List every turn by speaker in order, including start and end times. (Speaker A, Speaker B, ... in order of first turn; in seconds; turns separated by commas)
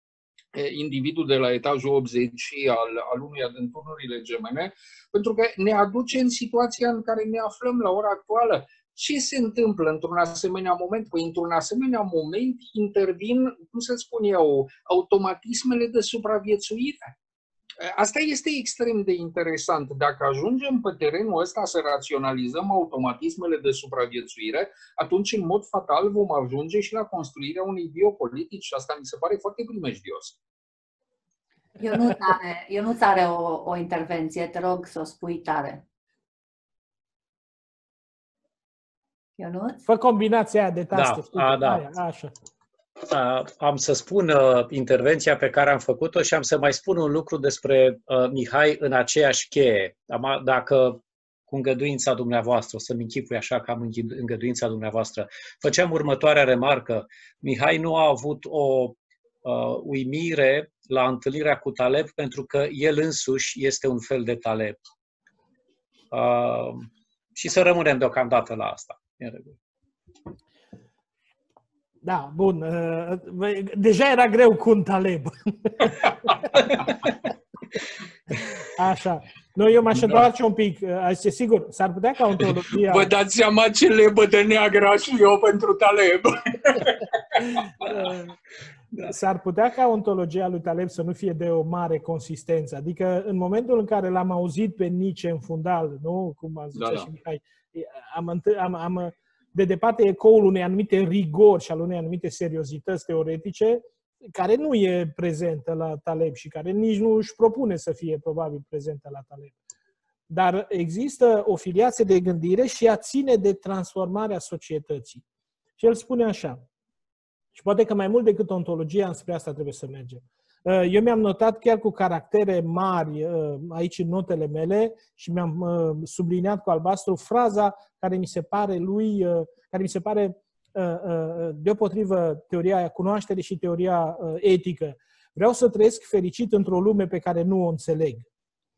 Speaker A: 0.5-17.1, Speaker A: 17.8-30.4, Speaker B: 31.8-35.8, Speaker B: 39.4-39.8, Speaker C: 39.9-42.3, Speaker D: 40.9-41.9, Speaker D: 43.0-64.8, Speaker D: 66.1-69.5, Speaker C: 72.0-76.0, Speaker C: 78.7-83.1, Speaker A: 82.7-88.1, Speaker C: 87.5-88.3, Speaker C: 89.0-109.5, Speaker A: 96.7-97.1, Speaker C: 110.3-115.2, Speaker C: 115.8-116.6, Speaker C: 117.5-138.3